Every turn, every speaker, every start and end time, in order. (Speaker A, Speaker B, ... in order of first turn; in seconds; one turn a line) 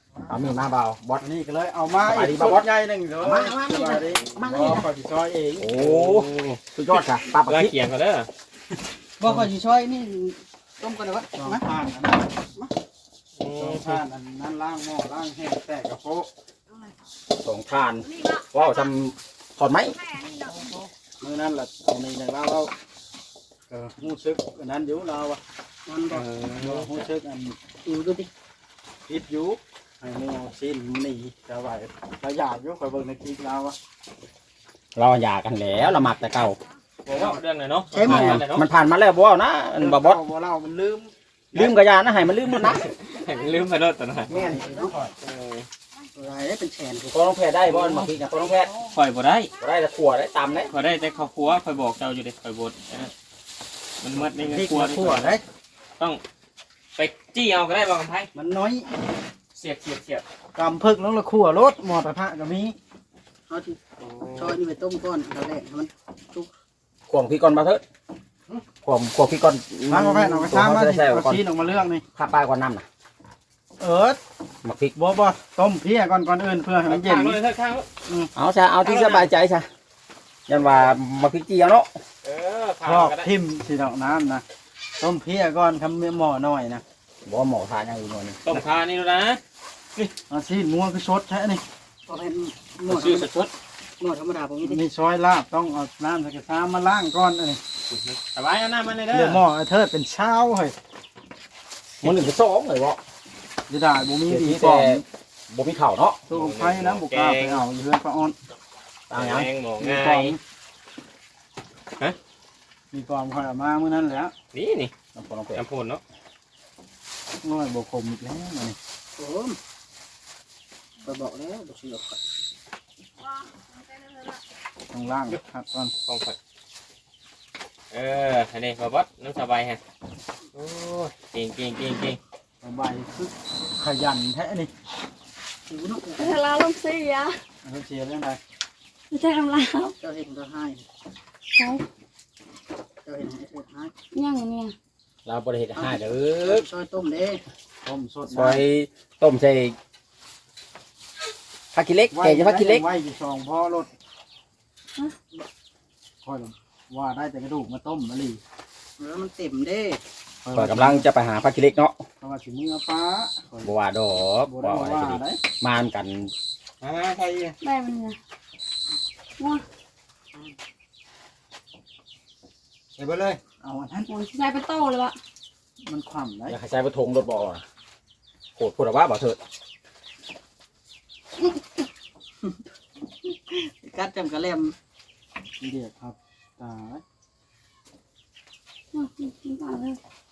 Speaker A: 0.3-1.2
Speaker B: 1.2-5.7
Speaker A: 2.0-4.9
Speaker A: 5.6-7.7
Speaker C: 5.7-8.3
Speaker D: 9.2-11.6
Speaker B: 11.3-12.3
Speaker C: 13.4-14.0
Speaker B: 13.5-16.3
Speaker A: 17.3-20.0
Speaker E: 18.0-18.9
Speaker E: 19.8-20.6
Speaker B: 20.5-22.7
Speaker B: 23.7-25.4
Speaker D: 25.9-26.2
Speaker C: 26.1-27.1
Speaker B: 26.6-27.6
Speaker D: 27.8-28.3
Speaker B: 29.1-33.8
Speaker A: 34.9-36.6
Speaker C: 37.0-38.7
Speaker B: 37.1-37.4
Speaker D: 37.9-38.4
Speaker A: 38.0-40.2
Speaker B: 39.7-41.1
Speaker A: 41.5-42.9
Speaker C: 42.5-44.3
Speaker A: 44.3-44.7
Speaker B: 44.3-45.1
Speaker D: 44.6-44.9
Speaker C: 45.2-45.7
Speaker D: 46.1-47.1
Speaker A: 47.0-48.7
Speaker C: 47.8-48.0
Speaker C: 48.9-49.5
Speaker A: 49.6-50.7
Speaker C: 50.7-53.1
Speaker C: 54.0-55.4
Speaker B: 54.3-55.4
Speaker C: 57.0-58.3
Speaker B: 58.4-58.7
Speaker D: 58.4-58.8
Speaker C: 59.5-60.2
Speaker B: 60.5-62.8
Speaker D: 63.5-63.8
Speaker C: 64.0-64.6
Speaker D: 64.3-66.5
Speaker A: 67.1-67.8
Speaker A: 68.8-71.4
Speaker B: 69.9-72.0
Speaker A: 72.1-72.8
Speaker B: 73.8-74.2
Speaker A: 74.6-75.0
Speaker B: 75.0-77.4
Speaker C: 76.8-77.9
Speaker A: 78.3-79.7
Speaker C: 78.8-79.2
Speaker A: 80.5-81.9
Speaker C: 80.5-80.9
Speaker C: 82.2-83.3
Speaker B: 82.8-84.4
Speaker B: 85.0-86.8
Speaker A: 87.2-88.4
Speaker C: 88.4-89.4
Speaker B: 90.3-91.6
Speaker D: 92.1-93.3
Speaker C: 92.9-93.5
Speaker D: 94.0-94.8
Speaker B: 94.6-97.6
Speaker C: 97.9-99.4
Speaker B: 99.1-100.8
Speaker A: 102.0-103.0
Speaker B: 103.7-105.0
Speaker A: 104.3-106.2
Speaker B: 106.3-108.3
Speaker C: 106.3-107.6
Speaker A: 109.1-109.5
Speaker C: 109.1-110.4
Speaker B: 109.8-110.4
Speaker B: 112.9-114.3
Speaker C: 114.5-114.9
Speaker A: 115.1-115.6
Speaker C: 115.5-116.0
Speaker B: 117.4-118.8
Speaker D: 119.2-119.6
Speaker D: 121.0-122.2
Speaker E: 123.2-124.4
Speaker B: 124.9-125.9
Speaker C: 126.0-126.4
Speaker C: 127.9-129.8
Speaker C: 130.5-132.2
Speaker B: 132.6-134.7
Speaker D: 135.7-136.4
Speaker E: 136.2-137.3
Speaker B: 137.6-138.4
Speaker E: 139.1-139.9
Speaker D: 140.0-140.8
Speaker E: 141.5-141.8
Speaker D: 143.0-143.9
Speaker E: 144.1-144.7
Speaker A: 145.2-146.7
Speaker D: 145.7-147.4
Speaker B: 147.8-148.6
Speaker A: 148.3-149.8
Speaker A: 151.7-152.8
Speaker B: 152.1-153.9
Speaker B: 156.2-158.4
Speaker D: 159.0-160.0
Speaker B: 160.4-161.1
Speaker A: 160.5-162.0
Speaker B: 162.2-163.7
Speaker A: 163.6-166.3
Speaker B: 164.4-165.4
Speaker B: 166.8-167.6
Speaker E: 167.6-168.2
Speaker B: 173.0-174.1
Speaker E: 174.1-175.2
Speaker B: 175.8-176.6
Speaker A: 176.5-177.6
Speaker A: 178.6-179.4
Speaker D: 183.3-184.7
Speaker B: 185.6-187.0
Speaker E: 188.9-190.0